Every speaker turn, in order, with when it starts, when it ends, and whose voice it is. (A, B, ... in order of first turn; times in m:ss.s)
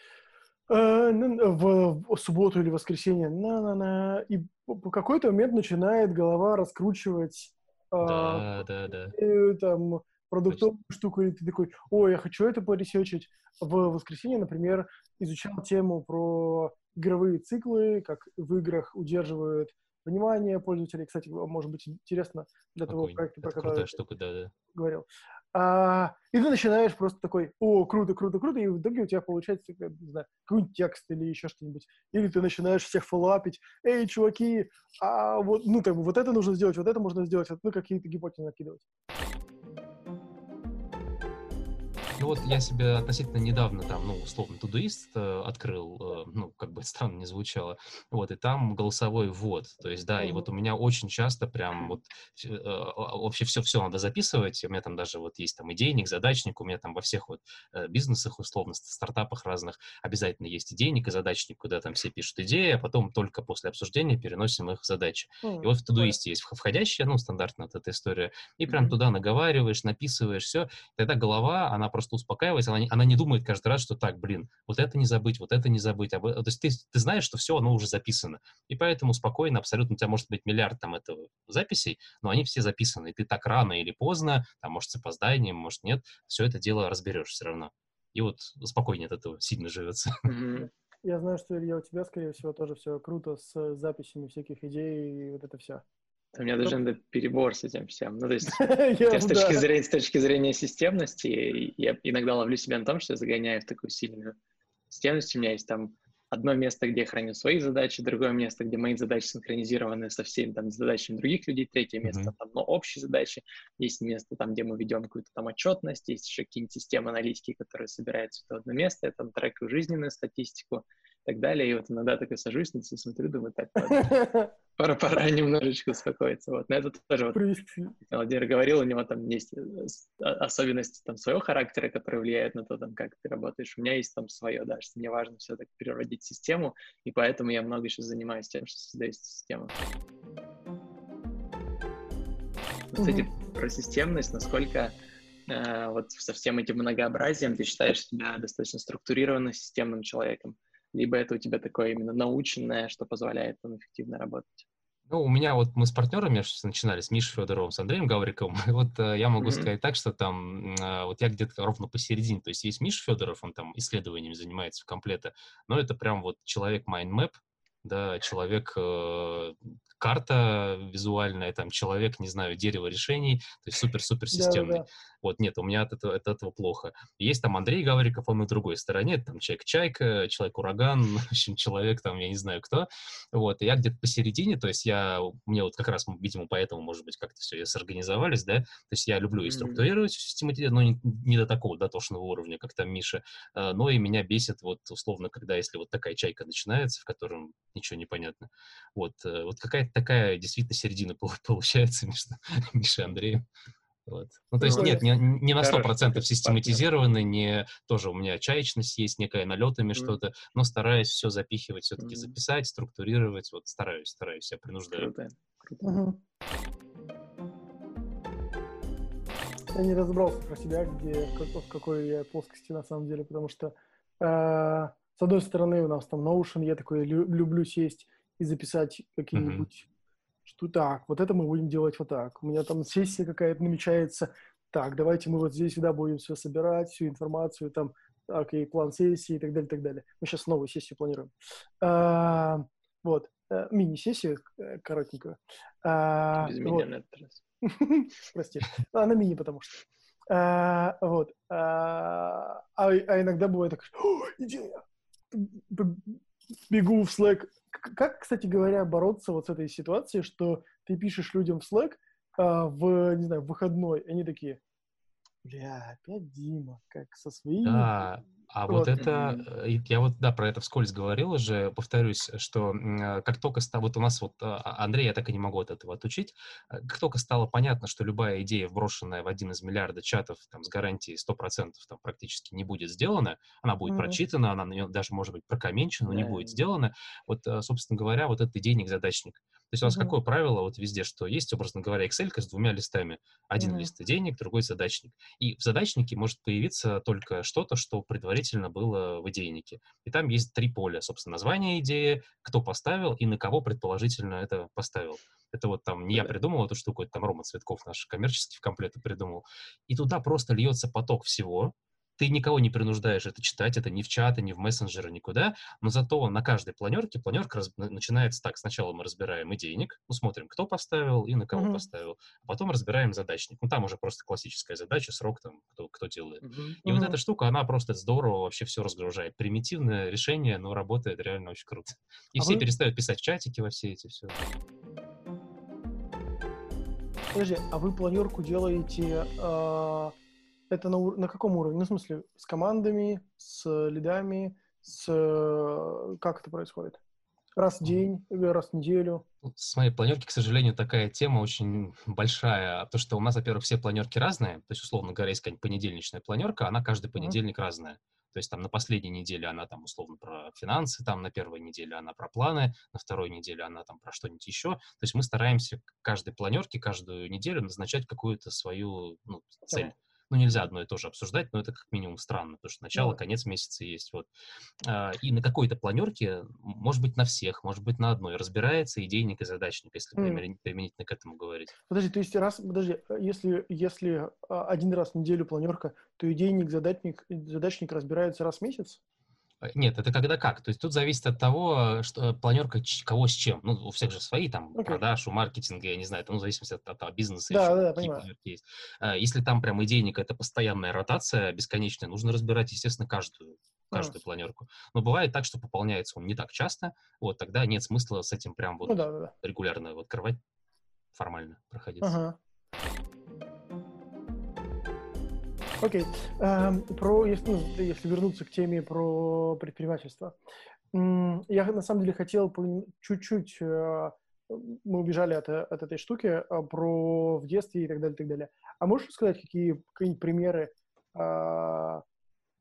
0:00.7-0:08.6 A
0:08.0-0:09.2 B
0:09.1-0:24.0 A
0:22.9-0:24.5 B
0:24.7-0:38.9 A
0:42.2-1:30.2 B
0:50.2-0:50.5 A
1:05.4-1:06.2 A
1:30.2-1:30.7 C
1:30.6-1:35.8 A
1:36.3-1:44.4 C
1:38.5-1:39.6 A
1:44.9-2:04.1 C
1:52.0-1:52.3 B
2:03.9-2:04.5 A
2:04.8-2:07.4 C
2:07.3-2:07.9 A
2:08.1-2:19.8 C
2:22.9-2:25.0 C
2:23.0-2:23.3 A
2:25.5-2:34.7 C
2:35.1-3:23.4 B
2:39.4-2:39.7 C
2:54.3-2:54.9 A
3:09.4-3:09.9 C
3:24.1-3:35.1 B
3:24.6-3:25.1 C
3:24.6-3:25.1 A
3:25.6-3:26.8 C
3:32.0-3:32.3 C
3:34.9-3:36.0 C
3:35.8-3:36.2 A
3:39.7-3:49.9 A
3:49.3-3:49.7 B
3:50.5-4:06.9 A
4:06.3-4:07.4 C
4:07.6-4:09.7 A
4:10.3-4:24.6 A
4:25.4-4:27.9 A
4:27.6-5:34.4 B
4:28.7-4:29.1 A
4:29.0-4:29.4 C
4:43.9-4:44.2 A
4:46.1-4:46.6 C
4:49.8-4:50.2 A
4:53.6-4:53.9 A
5:21.5-5:21.8 A
5:26.4-5:26.8 C
5:26.8-5:27.2 A
5:32.4-5:32.7 A
5:37.3-5:40.2 A
5:40.7-5:47.0 A
5:47.6-5:49.3 A
5:49.4-6:14.3 B
6:13.0-6:13.2 A
6:14.8-6:21.8 B
6:20.2-6:20.4 A
6:21.9-6:29.0 A
6:29.6-6:50.4 B
6:34.8-6:35.0 A
6:37.5-6:38.3 A
6:48.8-6:49.3 A
6:51.1-6:52.2 B
6:52.0-6:52.4 A
6:55.8-7:00.4 A
7:00.9-7:12.0 A